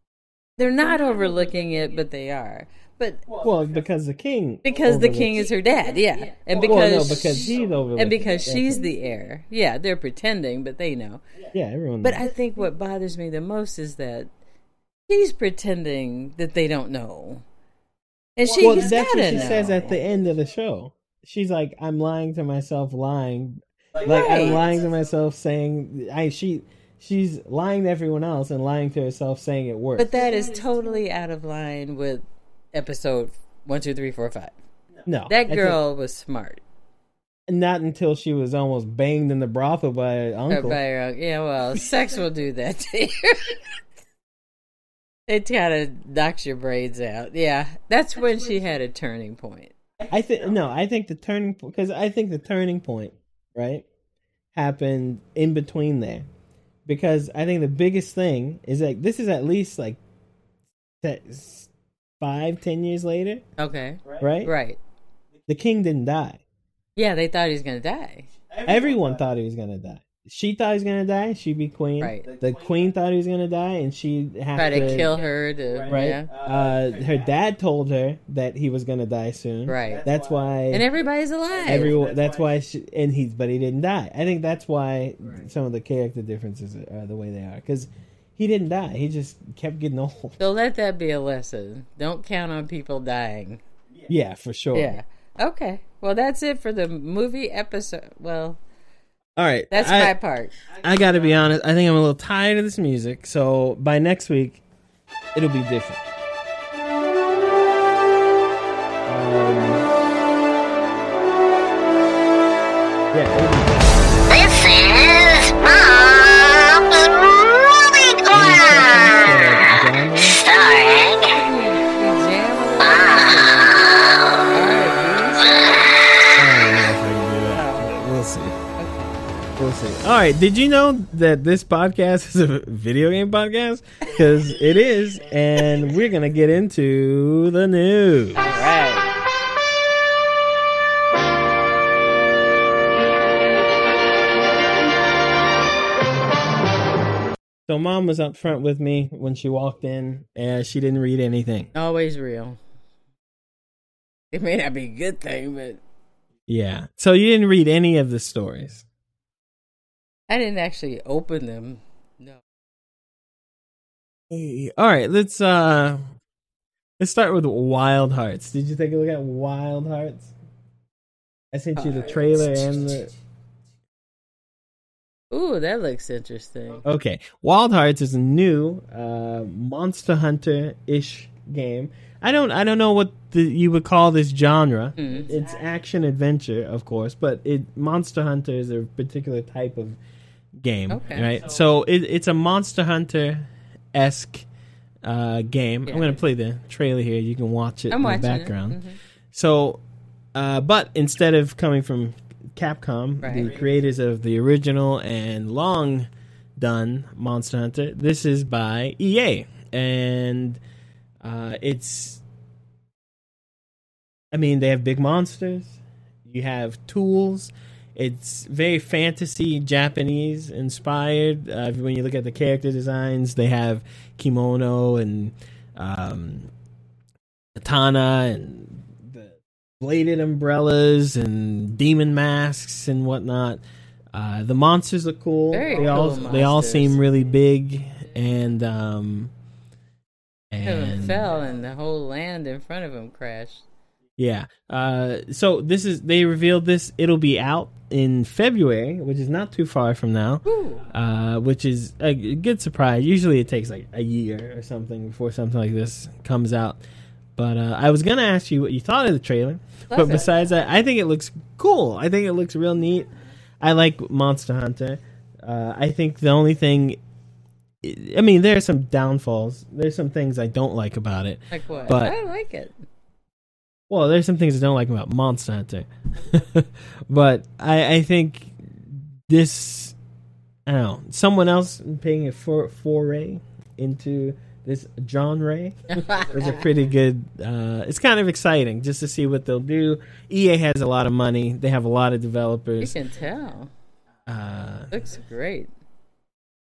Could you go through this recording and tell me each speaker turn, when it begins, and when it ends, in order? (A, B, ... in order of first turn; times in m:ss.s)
0:00.6-0:03.3 A
0:03.4-0:05.5 B
0:04.6-0:11.2 A
0:06.5-0:08.8 B
0:11.5-0:12.2 B
0:12.0-0:14.3 A
0:15.1-0:17.4 A
0:18.4-0:20.0 A
0:18.6-0:30.2 B
0:24.0-0:24.7 A
0:30.0-0:34.5 A
0:35.0-0:35.8 B
0:35.3-0:36.6 A
0:37.5-0:40.8 B
0:40.5-0:43.6 A
0:45.3-0:49.7 A
0:50.1-0:53.8 B
0:54.5-0:56.3 B
0:56.8-1:00.0 B
1:01.0-1:03.4 B
1:03.6-1:04.8 A
1:04.2-1:04.5 B
1:05.5-1:06.4 B
1:07.0-1:08.3 A
1:08.6-1:15.2 B
1:12.0-1:12.3 A
1:14.6-1:16.3 A
1:15.8-1:20.9 B
1:19.6-1:20.1 A
1:20.7-1:22.0 A
1:21.6-1:30.4 B
1:30.4-1:33.6 A
1:34.1-1:35.0 B
1:34.7-1:38.6 A
1:39.4-1:44.6 B
1:39.7-1:40.5 A
1:45.3-1:46.1 B
1:49.0-1:49.9 B
1:53.1-1:54.2 B
1:54.3-1:59.3 C
1:58.3-2:00.4 B
2:00.2-2:01.3 C
2:01.3-2:03.9 A
2:02.8-2:03.3 C
2:04.5-2:05.7 A
2:06.3-2:08.6 B
2:07.5-2:08.0 A
2:08.8-2:09.2 A
2:09.6-2:18.6 B
2:18.3-2:19.1 A
2:27.7-2:31.7 B
2:31.7-2:32.6 A
2:34.3-2:35.8 A
2:36.5-2:38.8 B
2:40.3-2:42.4 A
2:44.3-2:46.1 B
2:47.0-2:50.3 B
2:51.5-2:53.1 B
2:51.8-2:52.3 A
2:55.3-2:56.8 A
2:56.8-3:10.0 B
3:05.0-3:05.3 A
3:10.6-3:14.4 B
3:10.9-3:11.3 A
3:15.0-3:19.8 B
3:15.9-3:16.2 A
3:17.9-3:19.0 A
3:20.3-3:30.6 B
3:23.2-3:23.5 A
3:31.2-3:32.2 B
3:34.3-3:46.5 B
3:47.6-3:53.6 B
3:54.1-3:59.3 B
3:55.5-3:57.0 A
4:00.5-4:01.4 B
4:00.6-4:03.6 A
4:04.2-4:16.8 B
4:10.4-4:10.8 A
4:17.4-4:23.1 B
4:19.9-4:20.3 A
4:23.6-4:27.0 B
4:27.8-4:32.2 B
4:31.5-4:32.7 A
4:33.9-4:40.0 B
4:40.6-4:53.0 B
4:45.9-4:46.6 A
4:52.8-4:53.7 A
4:54.3-4:54.9 B
4:54.9-4:55.7 A